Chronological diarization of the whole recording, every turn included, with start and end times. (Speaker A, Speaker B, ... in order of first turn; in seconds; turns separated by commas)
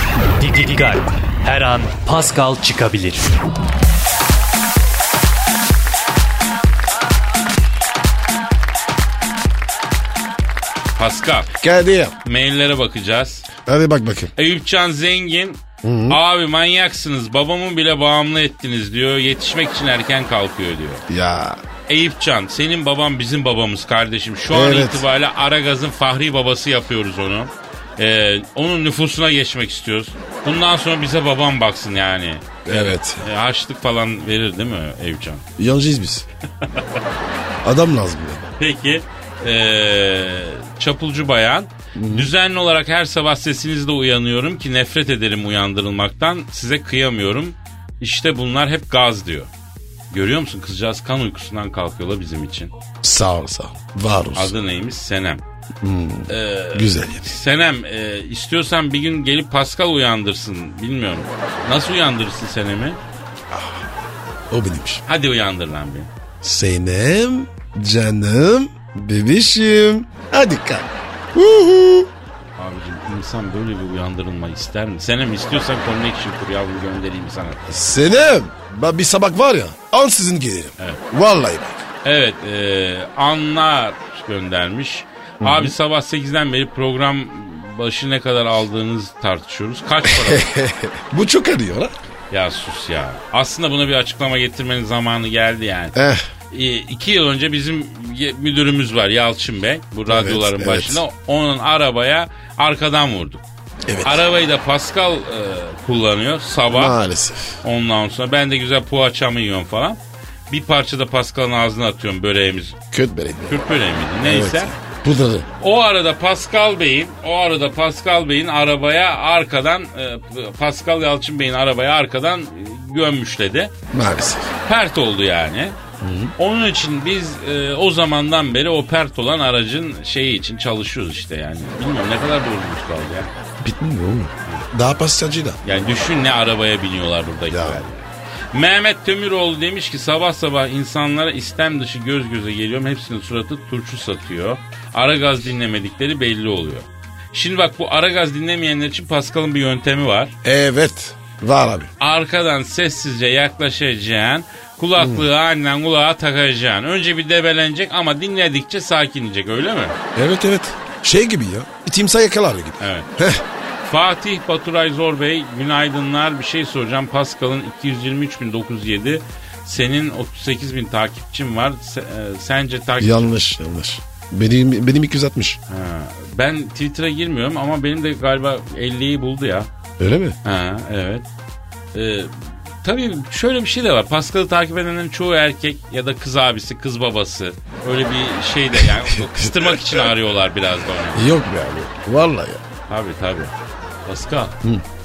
Speaker A: 0.4-3.3, Speaker B: 10.9-11.5, Speaker C: 11.6-12.1, Speaker B: 12.2-13.5, Speaker C: 13.6-14.3, Speaker B: 14.4-21.0, Speaker C: 15.8-16.2, Speaker C: 21.1-21.6, Speaker B: 21.9-35.5, Speaker C: 24.5-25.1, Speaker C: 32.6-33.3, Speaker C: 35.6-36.2, Speaker C: 37.6-38.5, Speaker B: 38.6-49.5, Speaker C: 41.9-42.3, Speaker B: 50.1-52.7, Speaker C: 53.0-54.5, Speaker B: 54.4-55.4, Speaker C: 55.8-57.4, Speaker B: 56.3-63.0, Speaker C: 63.5-63.9, Speaker C: 64.5-65.0, Speaker B: 65.1-66.1, Speaker C: 66.4-72.1, Speaker B: 72.6-77.6, Speaker C: 77.7-81.8, Speaker B: 82.0-90.5, Speaker C: 85.4-85.7, Speaker C: 90.0-91.9, Speaker B: 92.3-96.0, Speaker C: 96.0-96.3, Speaker B: 96.5-103.4, Speaker C: 100.1-101.0, Speaker C: 103.9-104.2, Speaker B: 104.0-107.0, Speaker C: 106.7-107.6, Speaker B: 107.6-112.8, Speaker C: 112.9-113.6, Speaker B: 113.5-114.7, Speaker C: 114.2-115.5, Speaker B: 115.6-123.7, Speaker C: 123.9-124.5, Speaker B: 124.7-125.8, Speaker C: 126.0-126.3, Speaker B: 126.4-133.3, Speaker C: 133.6-135.6, Speaker B: 135.6-150.3, Speaker C: 137.5-137.8, Speaker C: 150.4-151.9, Speaker B: 152.0-160.0, Speaker C: 155.0-155.3, Speaker C: 160.1-163.4, Speaker B: 162.8-163.1, Speaker B: 163.8-173.3, Speaker C: 173.0-175.6, Speaker B: 175.7-179.7, Speaker C: 180.0-180.4, Speaker B: 180.4-181.2, Speaker B: 181.9-191.3, Speaker C: 188.8-190.1, Speaker C: 191.1-192.6, Speaker B: 192.9-193.5, Speaker B: 194.1-194.5